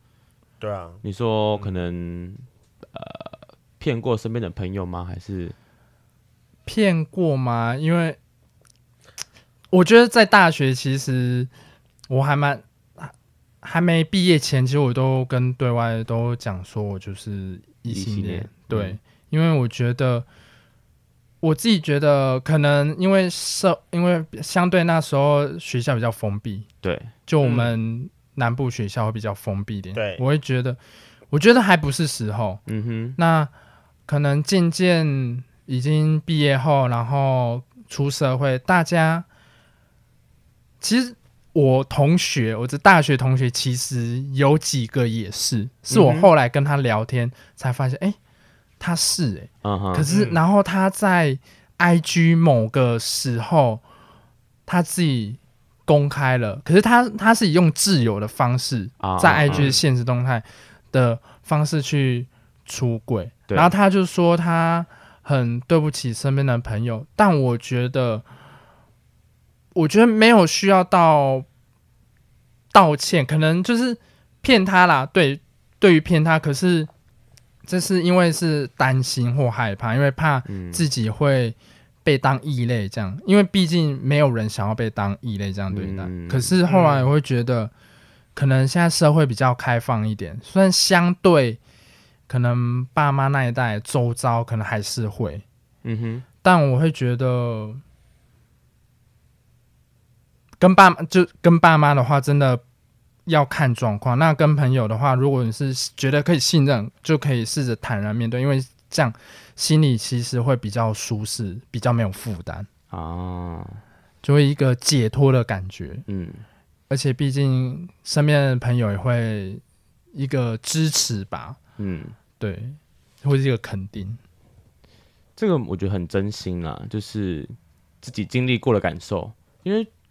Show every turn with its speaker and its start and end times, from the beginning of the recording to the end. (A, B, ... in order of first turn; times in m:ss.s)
0:00.6-0:01.0 A
0:01.0-0:05.5 B
0:06.6-0:08.2 C
0:09.7-0:11.5 C
0:12.1-0:20.2 C
0:17.9-0:19.0 B
0:21.4-0:26.7 C
0:26.8-0:27.7 B
0:27.3-0:30.8 C
0:29.9-0:30.2 A
0:31.3-0:32.6 C
0:32.7-0:33.2 B
0:33.2-0:33.5 C
0:34.1-0:39.2 C
0:40.8-0:48.2 C
0:45.9-0:46.3 B
0:48.8-0:53.8 C
0:49.6-0:50.1 B
0:50.1-0:50.4 A
0:54.7-1:08.2 C
0:59.0-0:59.7 B
0:59.5-0:59.8 A
1:09.7-1:11.4 C
1:12.7-1:16.9 C
1:17.6-1:27.7 C
1:20.4-1:20.9 B
1:25.7-1:26.6 B
1:26.7-1:27.1 A
1:28.3-1:31.6 C
1:32.3-1:35.4 C
1:35.8-1:36.2 B
1:36.4-1:37.8 C
1:40.6-1:42.6 C
1:43.2-1:52.7 C
1:52.9-1:53.8 B
1:54.2-1:56.0 C
1:56.1-1:56.4 B
1:56.9-1:59.6 C
2:00.1-2:01.6 C
2:01.8-2:02.2 B
2:02.4-2:04.2 C
2:05.4-2:09.9 B